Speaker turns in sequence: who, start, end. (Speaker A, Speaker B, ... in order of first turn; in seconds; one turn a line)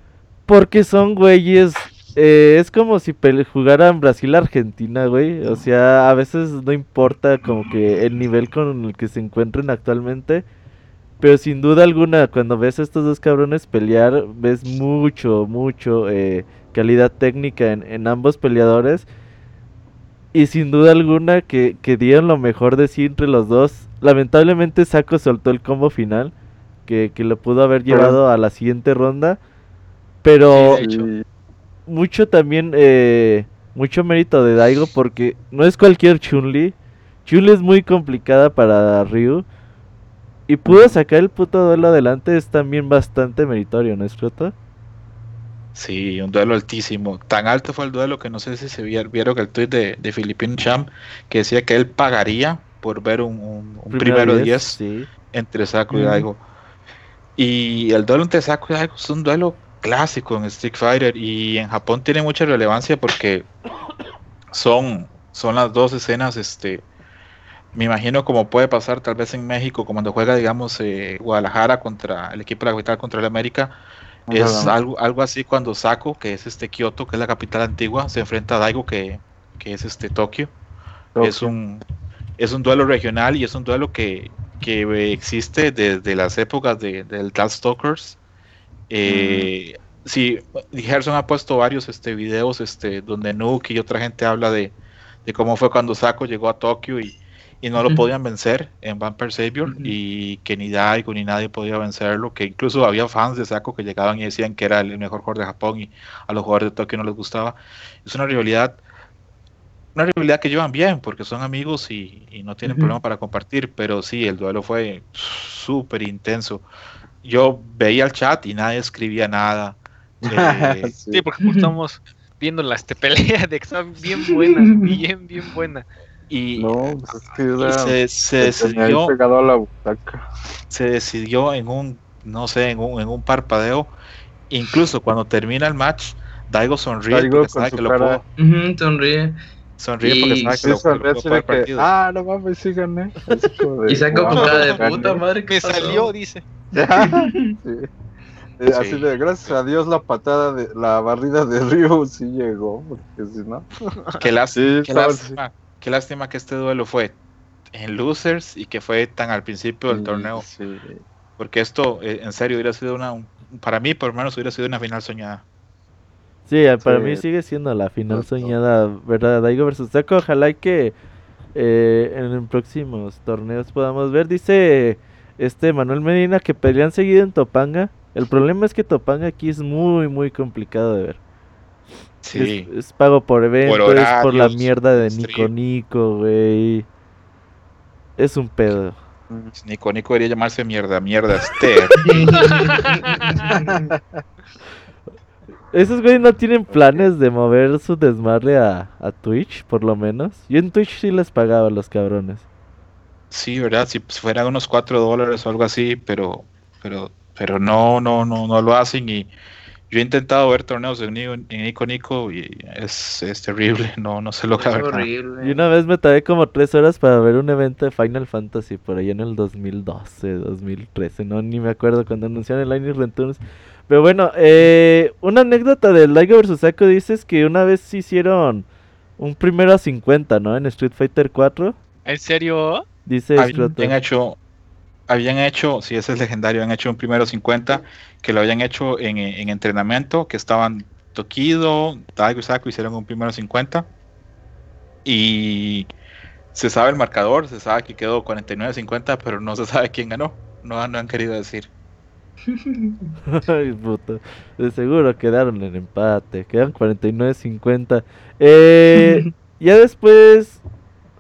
Speaker A: 0.5-10.4
Speaker A: 11.2-19.1
Speaker A: 20.3-26.3
Speaker A: 26.9-29.4
Speaker B: 27.9-28.2
Speaker A: 30.2-30.8
Speaker C: 30.5-31.1
Speaker B: 30.5-31.2
Speaker A: 31.9-36.7
Speaker A: 37.2-39.4
Speaker A: 40.5-44.5
Speaker B: 40.7-40.9
Speaker D: 45.7-54.8
Speaker A: 53.9-55.1
Speaker D: 55.3-56.4
Speaker B: 55.9-56.2
Speaker D: 57.4-63.5
Speaker D: 64.5-66.8
Speaker D: 67.7-73.8
Speaker B: 74.3-74.7
Speaker D: 74.3-80.5
Speaker B: 81.2-81.5
Speaker D: 81.2-81.8
Speaker D: 82.4-88.2
Speaker D: 88.9-108.8
Speaker B: 89.1-89.5
Speaker E: 99.7-99.9
Speaker D: 109.9-116.6
Speaker E: 112.7-112.9
Speaker D: 117.2-120.9
Speaker B: 120.2-121.2
Speaker C: 121.1-125.8
Speaker E: 124.4-124.9
Speaker D: 126.3-126.9
Speaker B: 126.6-130.2
Speaker D: 127.6-129.1
Speaker D: 130.7-133.9
Speaker D: 134.5-138.2
Speaker B: 137.1-138.2
Speaker E: 138.4-139.4
Speaker D: 139.8-141.9
Speaker E: 140.0-140.7
Speaker B: 140.6-145.2
Speaker E: 143.9-146.1
Speaker C: 144.3-144.8
Speaker C: 145.4-146.4
Speaker B: 146.7-147.9
Speaker E: 147.0-147.5
Speaker B: 148.6-153.7
Speaker D: 148.7-149.6
Speaker C: 153.8-154.2
Speaker D: 154.2-157.2
Speaker B: 154.5-155.4
Speaker D: 157.7-160.4
Speaker B: 159.9-161.0
Speaker D: 161.4-165.4
Speaker A: 166.5-170.9
Speaker B: 166.8-167.2
Speaker B: 168.1-168.5
Speaker A: 171.5-181.2
Speaker D: 182.2-182.7
Speaker A: 182.3-186.9
Speaker D: 183.6-185.5
Speaker A: 188.2-189.0
Speaker D: 189.6-192.4
Speaker E: 192.0-193.8
Speaker C: 192.3-193.6
Speaker B: 193.5-194.2
Speaker A: 195.7-202.4
Speaker B: 196.7-197.1
Speaker D: 203.3-209.3
Speaker D: 209.9-215.1
Speaker E: 214.6-215.6
Speaker A: 215.4-228.7
Speaker A: 229.2-231.8
Speaker C: 232.1-232.8
Speaker A: 233.1-233.9
Speaker D: 233.4-234.4
Speaker D: 235.1-243.9
Speaker D: 245.0-245.9
Speaker D: 246.5-251.7
Speaker E: 252.5-253.1
Speaker A: 253.3-260.6
Speaker E: 259.0-259.3